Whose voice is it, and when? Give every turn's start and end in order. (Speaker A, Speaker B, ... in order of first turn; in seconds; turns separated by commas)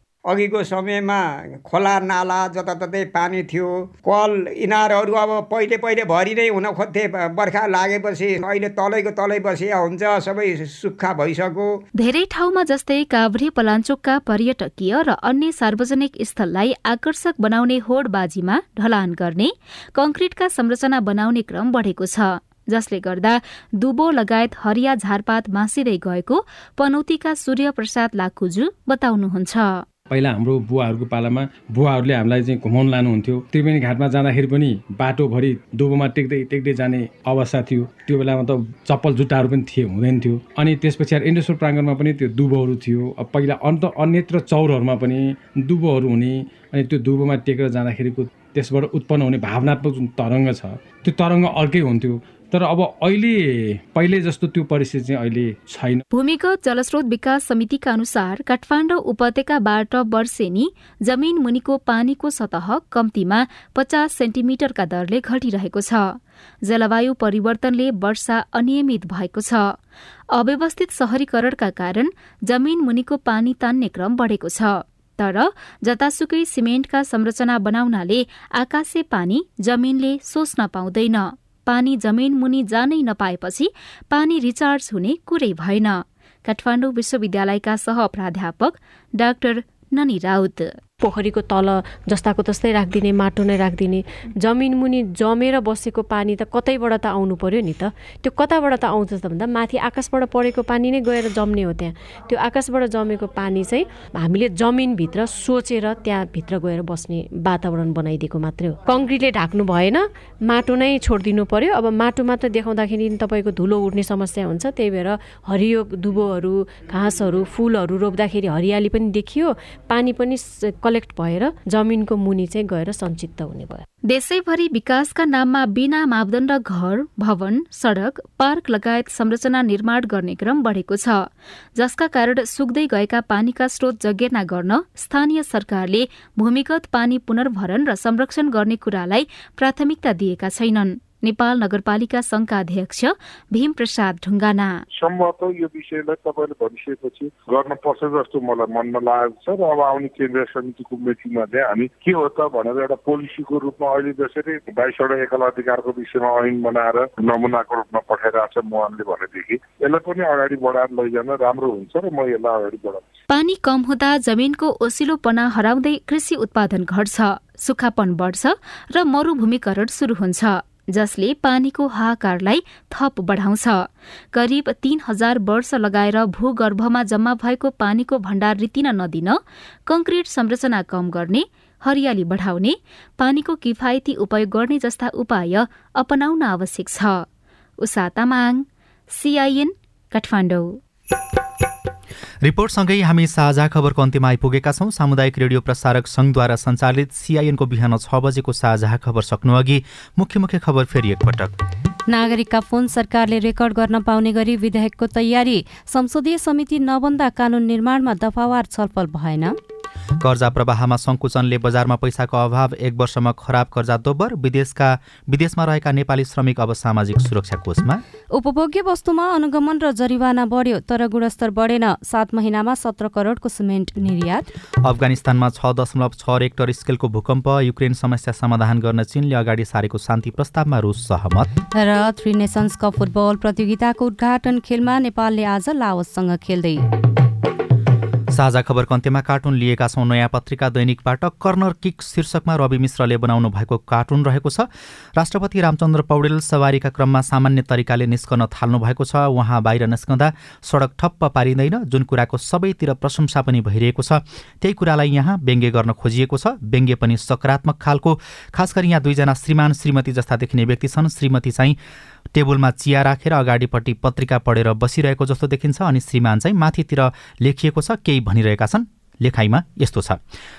Speaker A: 0.3-11.7, Speaker B: 12.0-29.8, Speaker C: 30.1-56.0, Speaker B: 56.1-69.8, Speaker B: 70.3-90.8, Speaker D: 91.0-123.8, Speaker B: 124.1-144.8, Speaker E: 144.9-163.0, Speaker B: 163.3-187.3, Speaker B: 187.8-190.8, Speaker F: 192.4-201.5, Speaker G: 202.1-209.5, Speaker F: 210.2-218.0, Speaker G: 218.4-224.4, Speaker F: 224.8-231.5, Speaker G: 231.8-236.8, Speaker F: 238.3-261.8, Speaker F: 262.3-270.2